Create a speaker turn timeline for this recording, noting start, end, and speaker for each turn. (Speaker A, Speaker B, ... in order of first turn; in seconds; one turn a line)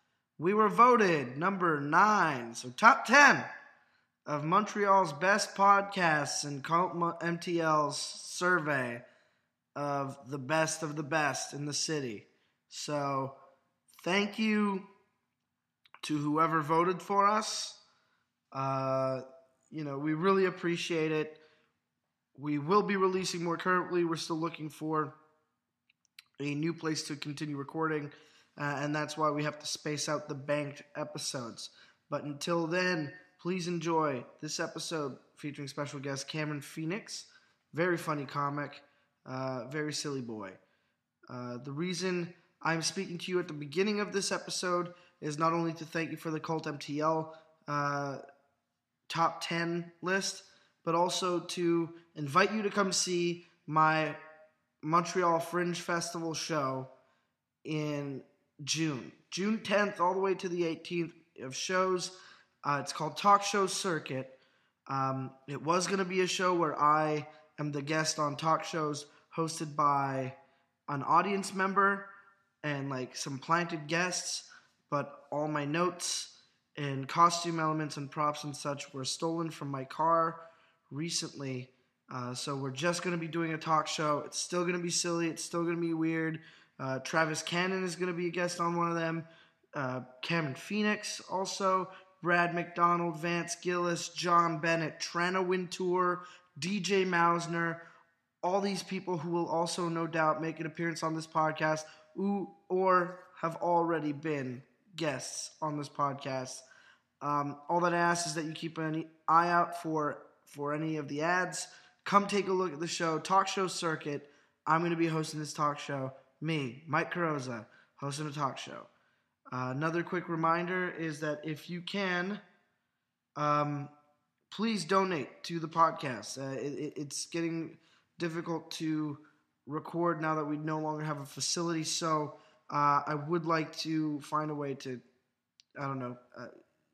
Speaker A: 0.4-3.5
Speaker A: 4.3-9.0
Speaker A: 9.8-13.4
Speaker A: 14.0-14.9
Speaker A: 16.0-17.8
Speaker A: 18.5-21.4
Speaker A: 22.4-25.1
Speaker A: 26.4-40.6
Speaker A: 41.3-48.2
Speaker A: 49.1-54.2
Speaker A: 54.8-56.9
Speaker A: 57.6-64.4
Speaker A: 64.9-70.4
Speaker A: 70.9-72.1
Speaker A: 72.6-97.8
Speaker A: 98.4-106.6
Speaker A: 107.2-118.9
Speaker A: 119.5-122.4
Speaker A: 123.4-123.9
Speaker A: 124.5-135.0
Speaker A: 135.8-136.5